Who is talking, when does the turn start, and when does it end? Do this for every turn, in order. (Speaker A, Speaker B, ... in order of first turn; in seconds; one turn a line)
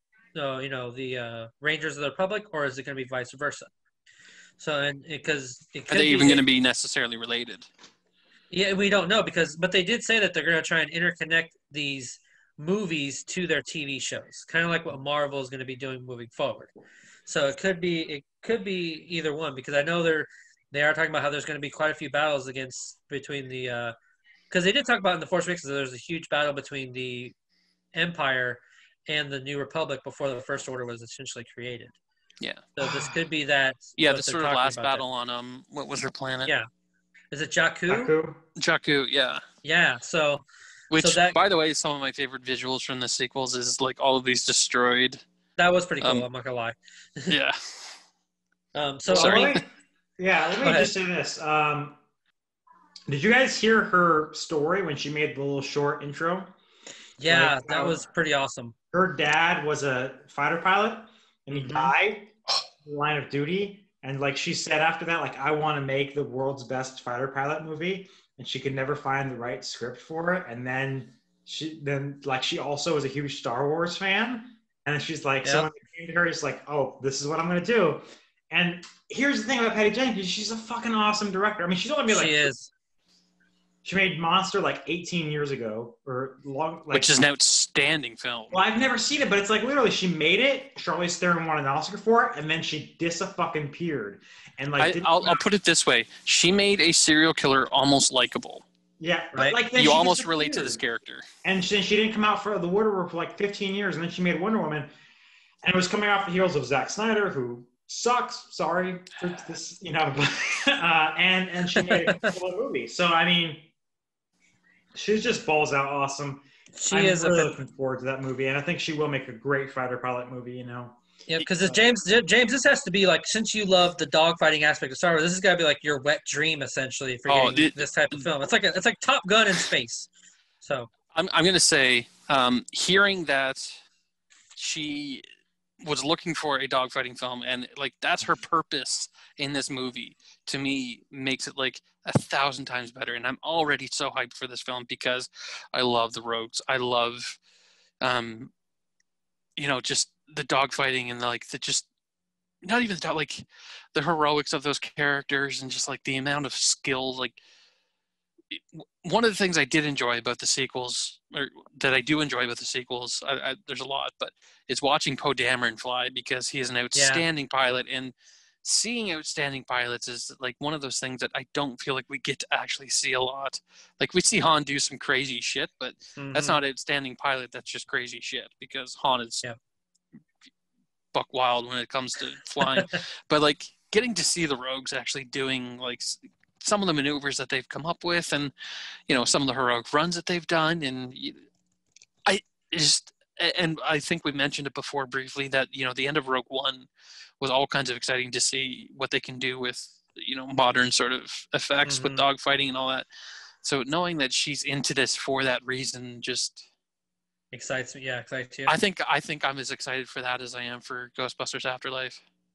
Speaker A: 0.3-3.7
Speaker A: 4.6-6.4
Speaker B: 5.9-7.7
Speaker A: 8.5-16.7
Speaker A: 17.3-23.9
Speaker A: 24.5-27.3
Speaker A: 27.9-31.9
Speaker B: 32.4-32.6
Speaker A: 32.8-35.0
Speaker C: 32.8-33.1
Speaker B: 34.0-36.5
Speaker A: 37.3-38.1
Speaker C: 37.9-38.4
Speaker B: 38.6-39.4
Speaker A: 39.6-40.4
Speaker B: 40.9-45.2
Speaker A: 40.9-41.4
Speaker A: 45.6-47.3
Speaker B: 47.3-48.0
Speaker A: 48.7-49.6
Speaker C: 49.1-49.6
Speaker B: 49.1-49.6
Speaker C: 50.2-52.0
Speaker A: 50.6-50.9
Speaker C: 53.1-56.5
Speaker A: 57.2-58.7
Speaker C: 57.2-58.0
Speaker C: 58.9-62.3
Speaker A: 61.5-61.9
Speaker C: 62.8-82.5
Speaker A: 82.1-82.7
Speaker C: 83.8-87.2
Speaker B: 86.9-88.6
Speaker C: 88.5-95.4
Speaker B: 94.8-98.6
Speaker C: 99.0-100.8
Speaker B: 99.7-101.2
Speaker C: 101.4-104.9
Speaker C: 105.6-113.7
Speaker A: 111.8-112.3
Speaker C: 114.9-121.8
Speaker A: 116.8-117.5
Speaker A: 121.3-130.1
Speaker B: 127.3-128.3
Speaker A: 130.6-130.9
Speaker B: 131.1-133.8
Speaker B: 134.6-135.2
Speaker B: 135.8-147.4
Speaker B: 148.0-148.5
Speaker B: 149.6-151.8
Speaker B: 152.6-157.4
Speaker B: 158.5-179.4
Speaker A: 166.9-167.2
Speaker A: 176.2-176.6
Speaker B: 181.1-188.5
Speaker B: 189.1-191.4
Speaker B: 192.2-196.9
Speaker B: 197.4-203.1
Speaker A: 201.8-202.2
Speaker B: 203.6-206.6
Speaker A: 207.5-208.7
Speaker B: 208.7-212.2